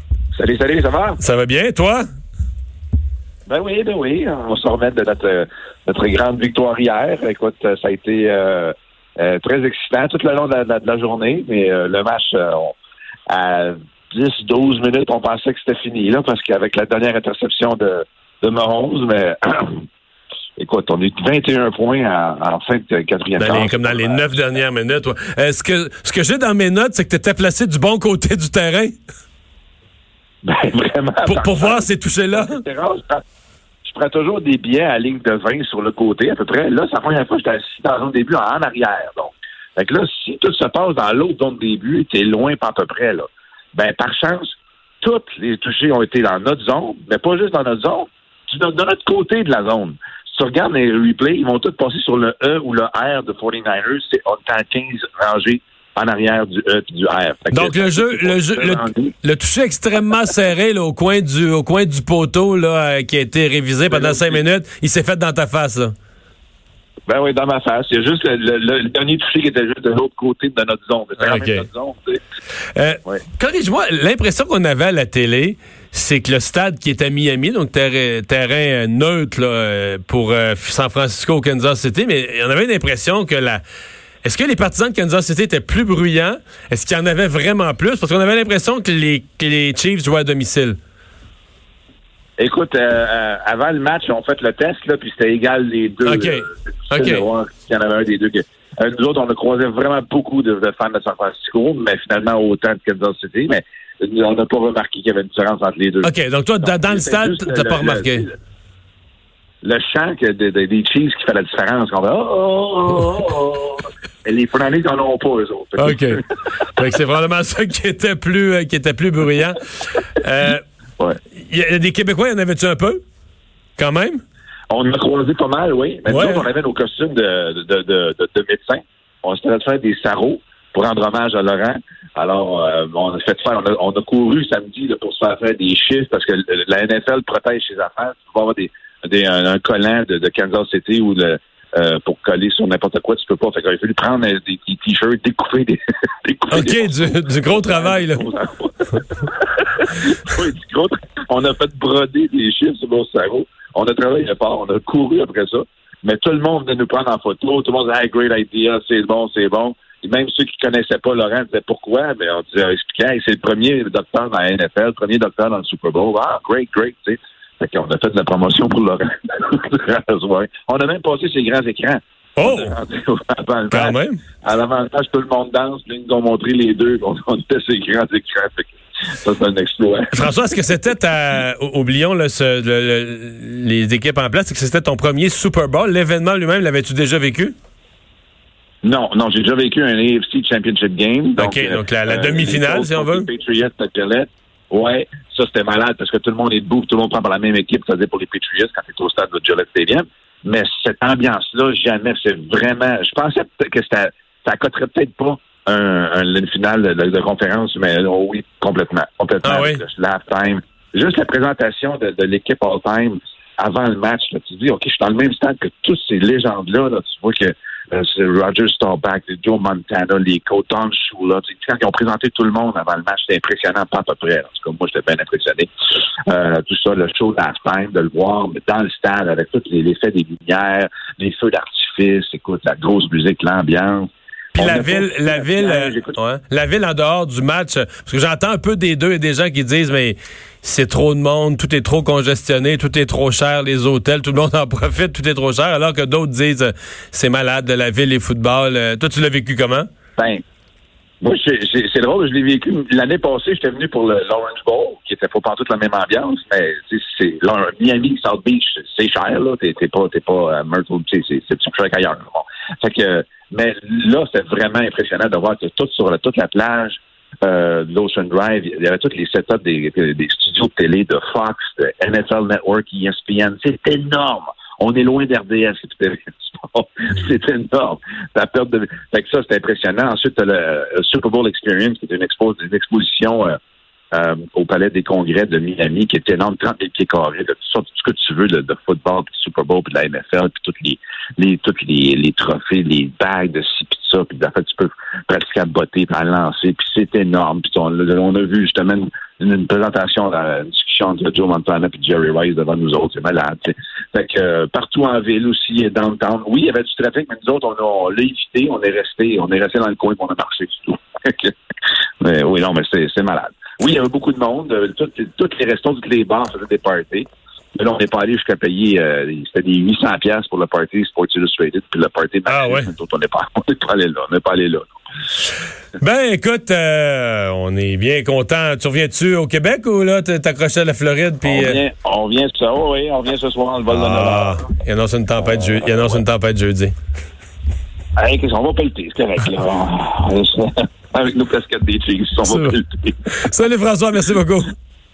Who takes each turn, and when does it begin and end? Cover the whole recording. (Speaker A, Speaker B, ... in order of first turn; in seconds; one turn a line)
Speaker A: 0.3-1.2
Speaker B: 1.2-2.0
Speaker A: 3.5-12.8
Speaker A: 13.3-19.8
Speaker A: 20.6-24.2
Speaker B: 23.4-28.9
Speaker A: 30.4-33.2
Speaker B: 31.2-32.6
Speaker A: 33.8-59.1
Speaker B: 57.5-65.9
Speaker A: 63.9-64.4
Speaker A: 67.1-72.2
Speaker B: 71.2-71.7
Speaker B: 72.7-83.6
Speaker B: 84.2-90.8
Speaker A: 92.4-108.3
Speaker B: 96.0-97.2
Speaker B: 106.0-108.3
Speaker A: 109.6-116.2
Speaker B: 115.8-116.2
Speaker B: 116.7-120.6
Speaker B: 121.4-123.0
Speaker B: 123.8-124.2
Speaker A: 124.7-180.1
Speaker B: 126.1-126.5
Speaker B: 146.5-148.3
Speaker B: 172.4-172.7
Speaker B: 173.7-174.2
Speaker B: 180.1-187.5
Speaker A: 188.8-225.7
Speaker B: 191.4-193.3
Speaker B: 209.4-209.8
Speaker A: 226.3-236.2
Speaker B: 234.5-249.9
Speaker A: 250.2-250.4
Speaker A: 251.2-283.6
Speaker A: 284.1-311.5
Speaker A: 312.2-324.9
Speaker B: 322.5-322.9
Speaker B: 326.0-331.8
Speaker A: 331.4-334.6
Speaker B: 333.9-336.9
Speaker A: 335.4-336.2
Speaker A: 338.2-343.3
Speaker B: 342.4-344.7